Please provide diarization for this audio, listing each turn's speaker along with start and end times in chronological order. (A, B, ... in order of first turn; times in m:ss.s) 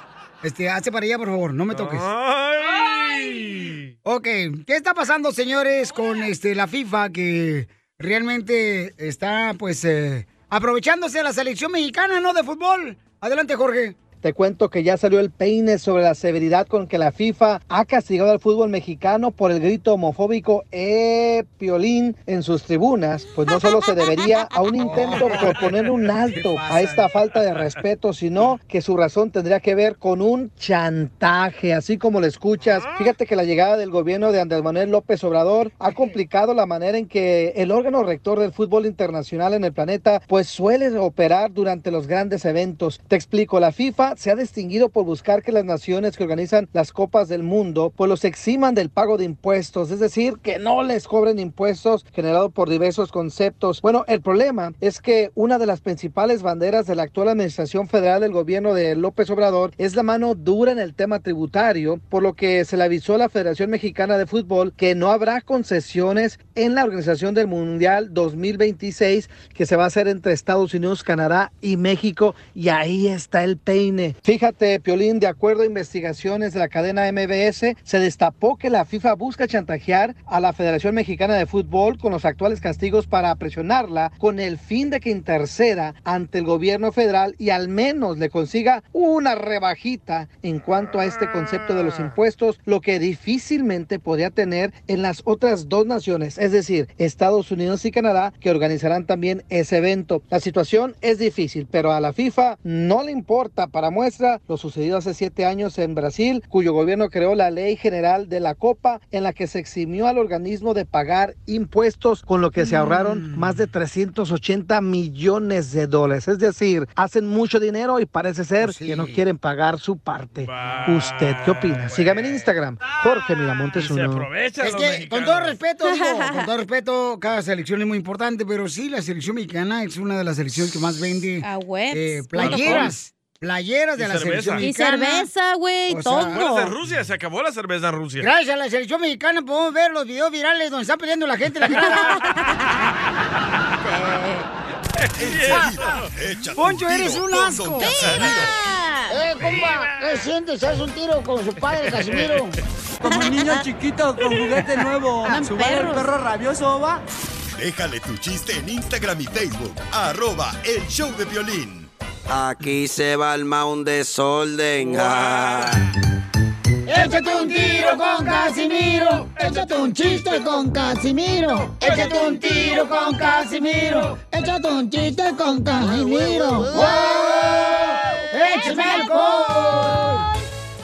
0:00.4-0:02.1 A
0:01.7-0:03.9 B
0:04.0-0:14.0 A
0:14.2-2:04.3 C
0:24.8-0:27.1 A
0:32.6-0:33.1 B
1:52.6-1:53.0 D
1:58.6-1:59.2 A
2:00.4-2:02.4 B
2:03.8-2:05.6 B
2:04.6-2:15.3 A
2:05.8-2:06.5 D
2:11.4-2:12.9 D
2:12.4-2:12.9 B
2:14.0-2:14.6 B
2:14.6-2:16.7 D
2:15.9-2:16.4 A
2:16.3-2:18.3 B
2:18.2-2:22.2 A
2:21.7-2:22.8 D
2:23.8-2:24.5 D
2:25.0-2:25.9 B
2:25.2-2:28.6 E
2:26.6-2:28.4 A
2:27.8-2:29.2 D
2:29.1-2:32.6 A
2:29.4-2:30.2 B
2:31.7-2:32.5 B
2:33.0-2:37.0 F
2:33.1-2:33.7 D
2:34.2-2:34.7 D
2:35.2-2:36.2 D
2:37.6-2:41.9 E
2:42.3-2:45.8 G
2:44.8-2:45.8 B
2:46.9-3:00.2 A
2:52.1-2:52.4 F
2:58.4-2:59.6 D